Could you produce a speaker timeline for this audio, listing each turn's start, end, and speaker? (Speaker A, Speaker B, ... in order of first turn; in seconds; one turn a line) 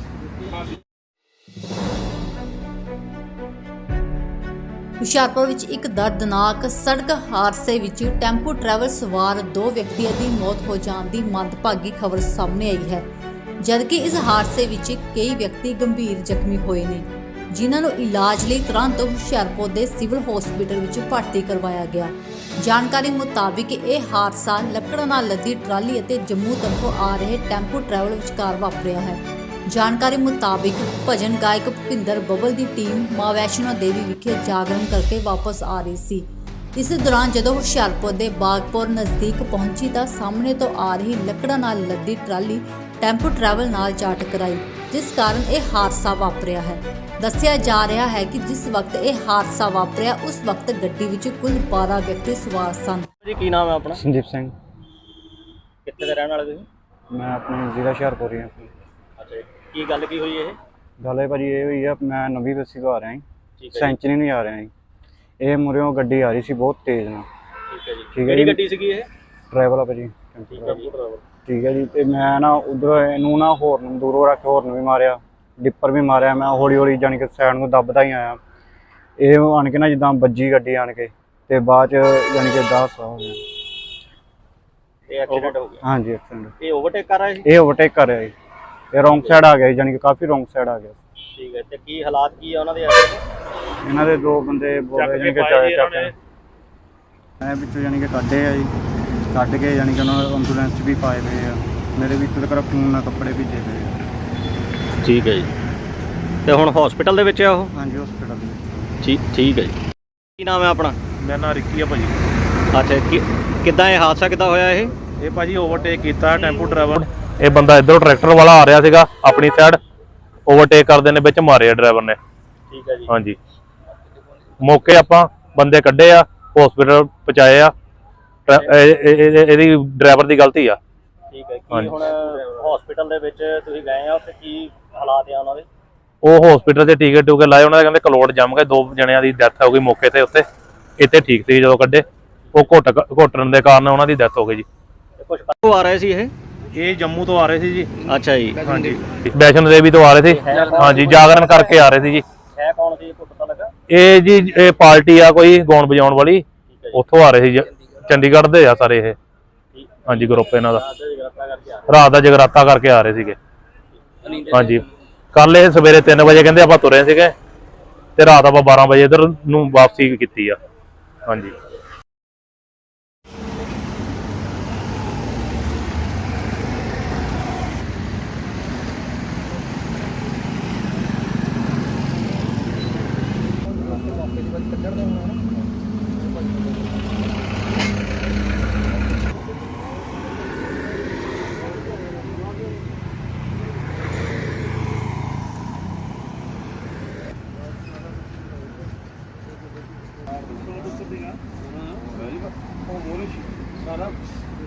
Speaker A: 5.0-13.0
Speaker A: 13.6-53.1
Speaker B: 53.2-54.0
Speaker C: 53.9-54.5
Speaker B: 55.9-56.7
Speaker C: 57.1-58.7
Speaker B: 59.2-60.6
Speaker C: 61.0-64.7
Speaker B: 63.6-64.0
Speaker C: 65.4-67.3
Speaker B: 67.7-69.1
Speaker C: 68.1-68.6
Speaker C: 69.5-70.8
Speaker B: 70.5-71.2
Speaker C: 71.5-78.4
Speaker C: 79.2-83.4
Speaker B: 85.1-85.8
Speaker C: 85.8-86.5
Speaker B: 86.6-87.4
Speaker C: 87.4-88.3
Speaker C: 88.9-91.0
Speaker B: 89.1-89.4
Speaker B: 91.3-93.2
Speaker C: 93.8-96.1
Speaker D: 95.0-96.1
Speaker C: 97.4-98.7
Speaker C: 99.3-104.0
Speaker B: 105.0-105.5
Speaker B: 106.5-107.7
Speaker C: 107.7-109.0
Speaker B: 109.0-109.8
Speaker B: 110.4-111.0
Speaker D: 111.2-112.1
Speaker B: 112.7-114.9
Speaker D: 115.2-119.8
Speaker D: 120.5-122.2
Speaker B: 122.7-123.1
Speaker D: 123.1-123.4
Speaker D: 124.6-127.7
Speaker D: 128.5-130.8
Speaker B: 131.3-135.7
Speaker D: 136.2-140.4
Speaker D: 141.0-144.7
Speaker B: 145.2-146.3
Speaker D: 146.7-147.9
Speaker B: 148.1-148.7
Speaker D: 148.6-152.2
Speaker B: 150.3-151.7
Speaker B: 152.5-153.7
Speaker D: 153.9-159.2
Speaker B: 156.7-157.0
Speaker B: 159.7-161.9
Speaker D: 160.1-160.8
Speaker D: 161.9-163.4
Speaker B: 163.9-164.4
Speaker D: 164.5-167.3
Speaker D: 168.2-170.6
Speaker D: 171.3-171.5
Speaker E: 200.5-204.2